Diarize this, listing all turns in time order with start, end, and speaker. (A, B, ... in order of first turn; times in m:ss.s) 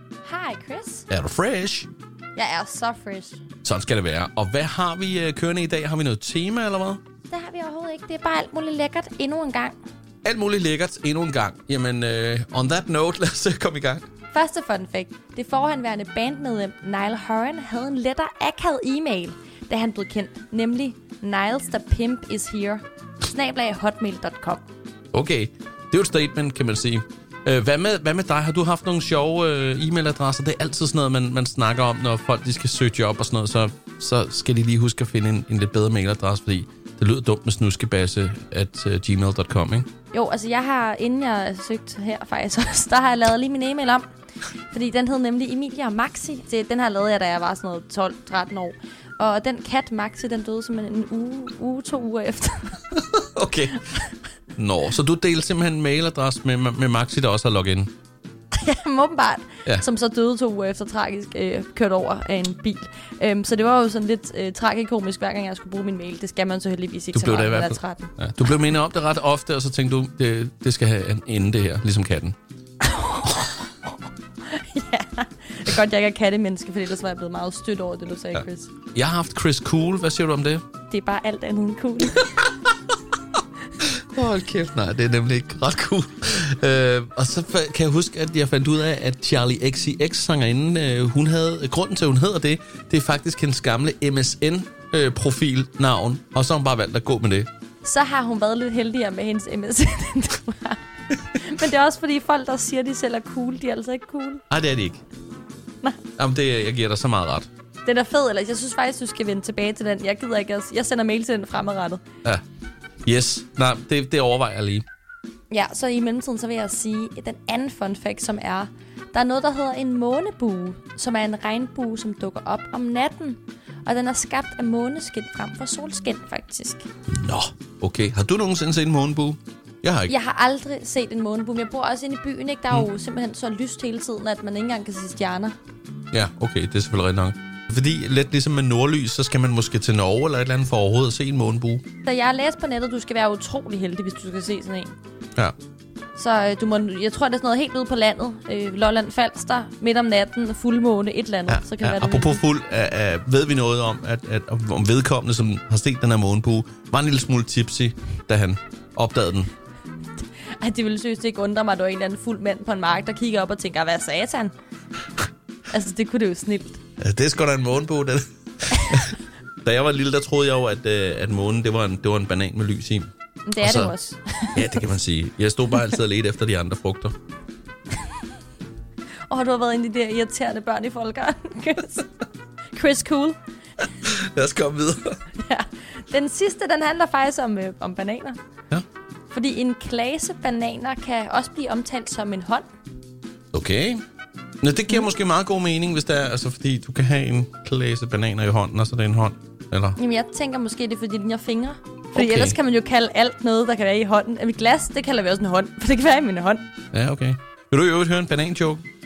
0:00.2-0:01.1 A
0:01.1-0:01.9 B
0:02.4-0:03.4 A
0:03.6-0:07.0 B
0:07.3-0:09.8 A
0:10.2-0:14.0 B
0:14.3-0:24.6 A
0:25.1-0:39.9 B
0:40.1-0:44.0 A
0:44.7-0:53.0 A
0:53.0-0:53.9 B
0:54.6-0:57.9 B
0:58.5-1:08.2 A
1:07.1-1:12.4 B
1:12.8-1:13.6 A
1:14.5-1:18.7 A
1:19.0-1:20.6 B
1:20.9-1:22.5 A
1:23.8-1:37.5 B
1:37.8-1:44.4 A
1:44.5-1:45.0 B
1:46.2-1:47.5 B
1:47.8-1:52.0 A
1:53.0-1:54.8 B
1:55.5-2:06.9 A
2:07.1-2:10.1 B
2:10.1-2:15.6 A
2:16.1-2:21.8 B
2:22.0-2:25.0 A
2:26.2-2:32.4 A
2:31.5-2:39.5 B
2:40.6-2:44.5 A
2:45.7-2:46.8 A
2:47.0-2:53.9 B
2:53.4-2:54.7 A
2:54.5-2:57.1 B
2:59.3-3:02.1 A
3:02.7-3:03.4 A
3:04.0-3:05.2 B
3:05.4-3:08.4 A
3:09.3-3:12.6 A
3:13.5-3:14.0 B
3:14.6-3:20.0 B
3:20.0-3:26.6 A
3:22.1-3:22.6 B
3:26.9-3:28.8 B